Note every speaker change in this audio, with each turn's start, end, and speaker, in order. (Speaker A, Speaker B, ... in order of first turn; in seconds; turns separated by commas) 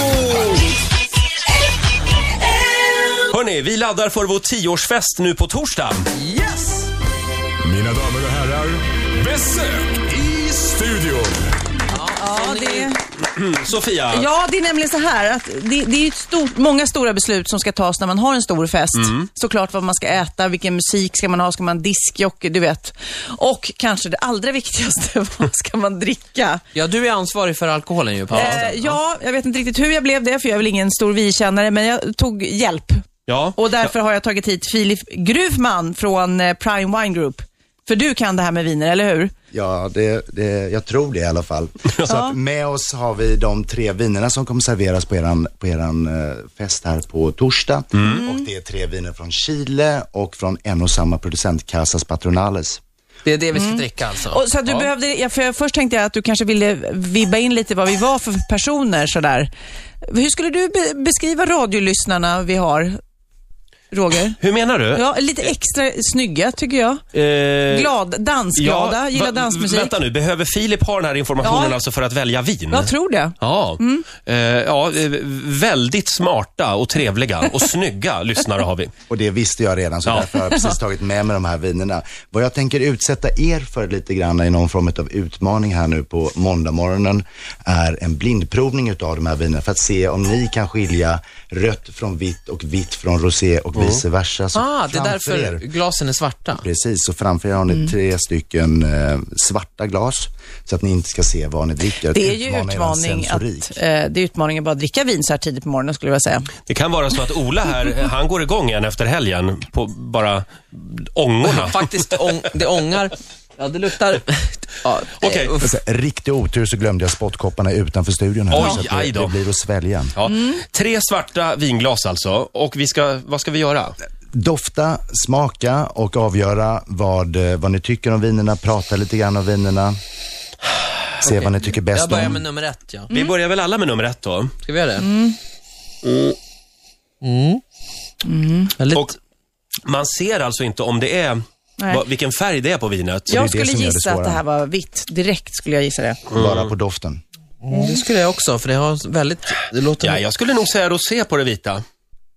Speaker A: 3.3-6.1, Speaker B: 6.2-6.9, Speaker C: 7.6-11.5, Speaker B: 11.9-12.9, Speaker D: 12.1-13.0, Speaker A: 13.2-14.3, Speaker D: 14.1-26.6, Speaker A: 18.9-19.3, Speaker B: 26.8-29.0, Speaker A: 28.3-28.6, Speaker D: 28.3-33.0, Speaker A: 33.3-33.9, Speaker D: 33.6-39.3, Speaker E: 39.5-52.8, Speaker D: 42.1-42.4, Speaker A: 47.9-48.2, Speaker D: 48.0-48.5, Speaker B: 53.2-54.4, Speaker D: 53.6-59.5, Speaker D: 60.0-63.0, Speaker D: 63.9-64.4, Speaker A: 64.4-65.0, Speaker D: 64.9-67.0, Speaker A: 67.1-67.9, Speaker D: 67.7-70.0, Speaker A: 68.6-78.9, Speaker D: 71.4-71.8, Speaker D: 72.7-74.1, Speaker E: 79.1-95.6, Speaker A: 80.1-80.5, Speaker A: 93.8-94.0, Speaker B: 94.5-96.6, Speaker E: 96.5-103.8, Speaker D: 102.1-106.5, Speaker A: 106.7-111.8, Speaker B: 111.5-115.7, Speaker A: 115.2-115.5, Speaker E: 115.6-120.2, Speaker A: 118.5-119.4, Speaker A: 120.2-124.0, Speaker D: 120.2-120.6, Speaker E: 124.3-130.0, Speaker E: 131.2-132.4, Speaker B: 131.2-133.1, Speaker D: 133.1-133.3, Speaker A: 133.1-134.6, Speaker B: 134.7-135.1, Speaker D: 135.0-135.4, Speaker A: 136.0-136.4, Speaker B: 137.2-137.6, Speaker D: 138.2-138.8, Speaker B: 138.8-139.1, Speaker A: 138.9-139.2, Speaker A: 139.9-143.4, Speaker D: 141.8-142.0, Speaker D: 143.3-146.2, Speaker E: 143.3-144.4, Speaker A: 146.3-146.7, Speaker E: 146.3-147.2, Speaker B: 147.6-150.2, Speaker A: 150.0-151.8